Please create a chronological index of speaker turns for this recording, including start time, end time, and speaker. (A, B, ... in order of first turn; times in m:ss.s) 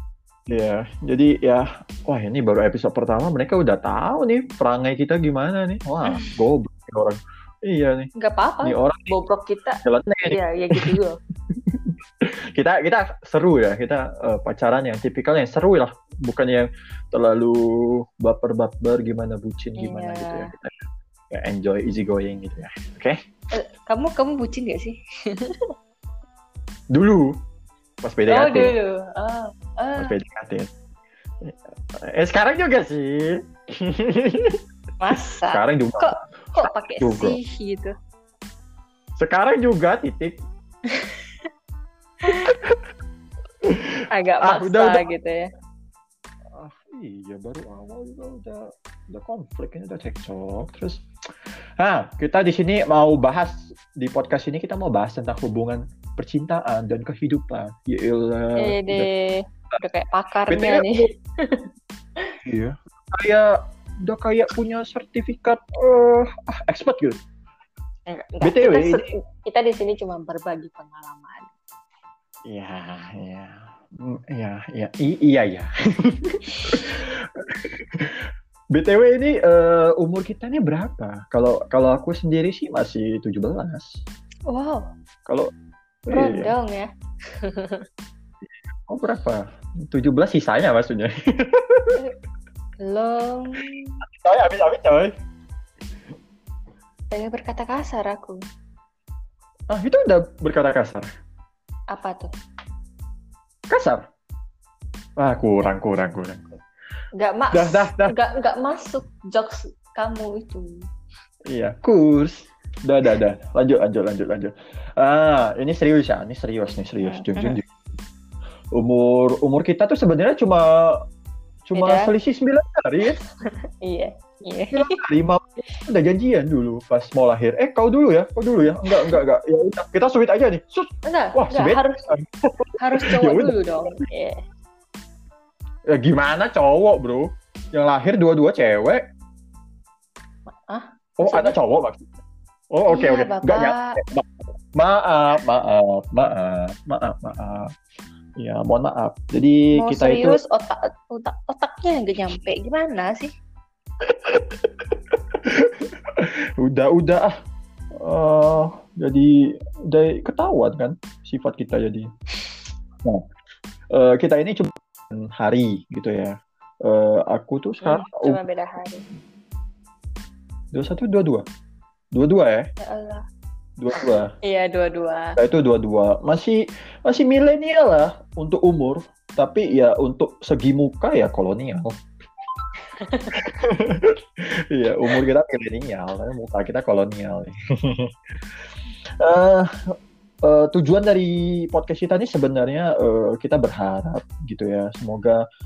0:00.5-0:08.1 A
0:08.2-0:11.2 B
0:08.6-0:09.1 A
0:09.8-0:10.9 A
0:11.7-0:11.9 A
0:12.6-0:20.7 A
0:19.8-0:20.5 B
0:21.3-0:23.2 A
0:23.6-0:25.6 B
0:26.9-0:27.3 A
0:28.0-0:28.7 A
0:28.3-0:30.1 B
0:30.0-0:30.7 A
0:31.4-0:34.6 A
0:35.0-0:37.9 B
0:35.5-0:37.4 A
0:39.2-0:40.4 A
0:40.9-0:41.2 B
0:42.3-0:42.6 B
0:42.3-0:42.8 A
0:44.1-0:45.4 B
0:44.4-0:45.0 A
0:46.5-0:51.0 A
0:51.8-0:59.1 A
0:58.6-1:01.7 B
1:00.5-1:01.0 A
1:02.4-1:03.5 A
1:04.0-1:07.2 A
1:08.1-1:11.5 B
1:08.4-1:09.1 A
1:12.5-1:18.2 A
1:16.6-1:16.8 B
1:18.7-1:24.0 A
1:24.5-1:24.9 B
1:26.1-1:26.5 A
1:26.1-1:26.8 B
1:27.4-1:27.8 B
1:28.9-1:32.0 A
1:32.8-1:34.0 B
1:34.2-1:35.1 A
1:37.1-1:38.4 B
1:39.7-1:41.0 A
1:41.9-1:42.3 B
1:43.7-1:44.0 A
1:45.2-1:46.5 A
1:47.2-1:50.7 B
1:47.5-1:48.1 A
1:51.5-1:57.6 A
1:57.0-1:57.6 B
1:58.7-2:01.0 A
2:01.7-2:03.2 A
2:01.7-2:02.1 B
2:03.8-2:04.8 B
2:04.7-2:14.0 A
2:08.9-2:09.2 B
2:11.0-2:12.1 B
2:12.8-2:14.4 B
2:15.9-2:19.0 A
2:20.5-2:21.6 B
2:21.2-2:22.0 A
2:22.7-2:24.2 A
2:22.9-2:23.9 B
2:24.8-2:27.7 A
2:28.4-2:30.4 A
2:29.8-2:33.3 B
2:34.1-2:34.8 A
2:35.4-2:37.3 A
2:38.0-2:39.3 A
2:39.9-2:42.1 A
2:43.9-2:46.3 A
2:46.8-2:48.4 A
2:47.8-2:49.0 B
2:50.7-2:51.4 A
2:52.1-2:52.7 A
2:52.8-2:53.2 B
2:53.8-2:54.3 A
2:54.0-2:55.3 B
2:55.4-3:01.9 A
3:03.0-3:03.3 B
3:03.4-3:04.1 A
3:04.7-3:08.1 A
3:09.2-3:09.7 A
3:10.4-3:15.4 A